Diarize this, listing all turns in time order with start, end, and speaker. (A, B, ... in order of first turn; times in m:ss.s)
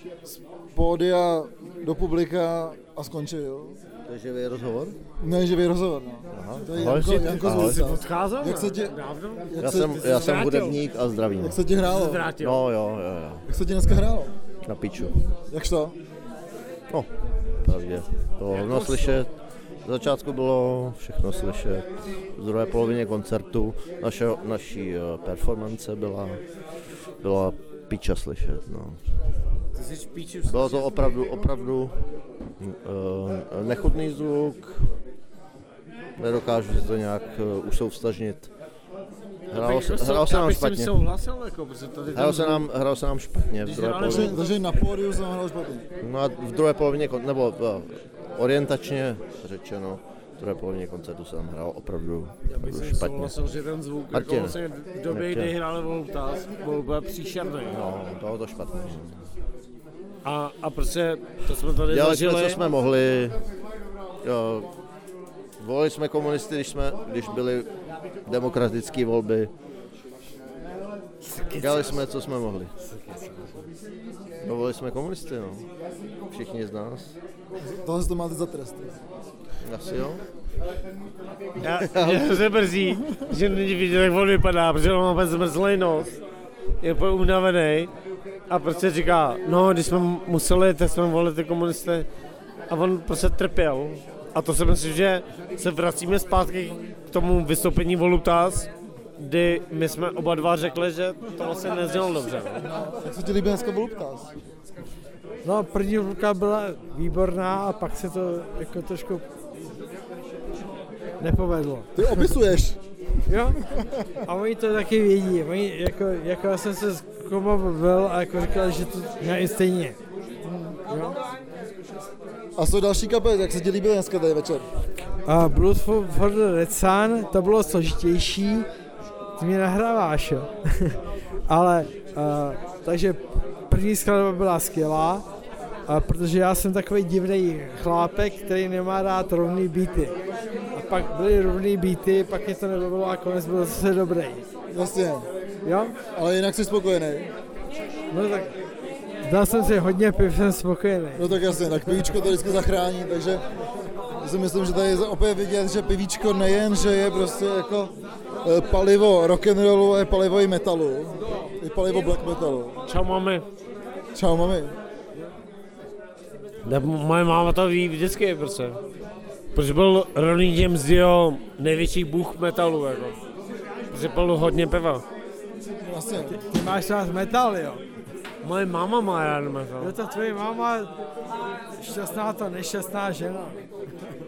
0:00.3-0:03.8 A
0:04.1-0:05.0 B
0:05.2-0:09.0 A
0:06.3-0:07.9 B
0:07.4-0:10.8 C
0:09.5-0:10.2 A
0:09.6-0:11.6 B
0:11.4-0:12.3 A
0:11.8-0:12.6 C
0:12.3-0:13.4 B
0:13.5-0:14.3 A
0:14.6-0:15.2 B
0:15.5-0:16.0 A
0:17.6-0:19.3 B
0:18.5-0:19.2 C
0:19.8-0:26.4 B
0:27.2-0:29.0 B
0:29.7-0:31.0 C
0:30.4-0:32.0 B
0:32.6-0:34.9 B
0:36.2-0:38.5 B
0:39.5-0:41.0 B
0:39.5-0:42.7 C
0:42.1-0:44.4 B
0:43.6-0:44.4 C
0:44.0-0:45.9 A
0:46.0-0:53.4 B
0:52.5-0:57.8 C
0:54.1-0:55.5 B
0:57.6-0:59.2 B
1:00.2-1:02.6 C
1:01.8-1:03.4 B
1:04.2-1:04.7 B
1:05.6-1:07.7 B
1:08.2-1:09.5 B
1:11.6-1:12.7 B
1:11.6-1:12.0 C
1:12.8-1:13.6 C
1:14.4-1:15.7 B
1:16.3-1:17.1 B
1:17.6-1:19.0 A
1:19.6-1:20.2 B
1:21.6-1:26.2 C
1:22.8-1:23.2 A
1:26.8-1:27.9 C
1:28.5-1:32.1 C
1:32.7-1:42.6 C
1:42.6-1:44.3 A
1:45.4-1:49.2 D
1:51.2-1:52.3 D
1:51.9-1:52.8 A
1:53.3-1:53.6 D
1:53.6-1:54.2 A
1:54.2-2:00.0 D
2:00.4-2:00.8 A
2:00.9-2:01.2 D
2:02.6-2:04.7 A
2:05.2-2:08.7 D
2:09.4-2:15.2 D
2:15.9-2:20.2 D
2:20.7-2:24.4 D
2:24.7-2:25.3 A
2:25.6-2:26.0 D
2:26.1-2:27.3 A
2:28.1-2:28.5 D
2:29.2-2:32.0 D
2:31.1-2:33.4 A
2:34.2-2:42.8 A
2:42.9-2:43.4 C
2:44.1-2:44.8 A
2:46.6-2:48.8 C
2:49.5-2:53.2 C
2:53.9-2:55.0 C
2:55.6-2:56.4 A
2:56.3-2:57.8 D
2:58.4-3:00.0 C
2:59.8-3:00.9 D
3:01.8-3:03.6 D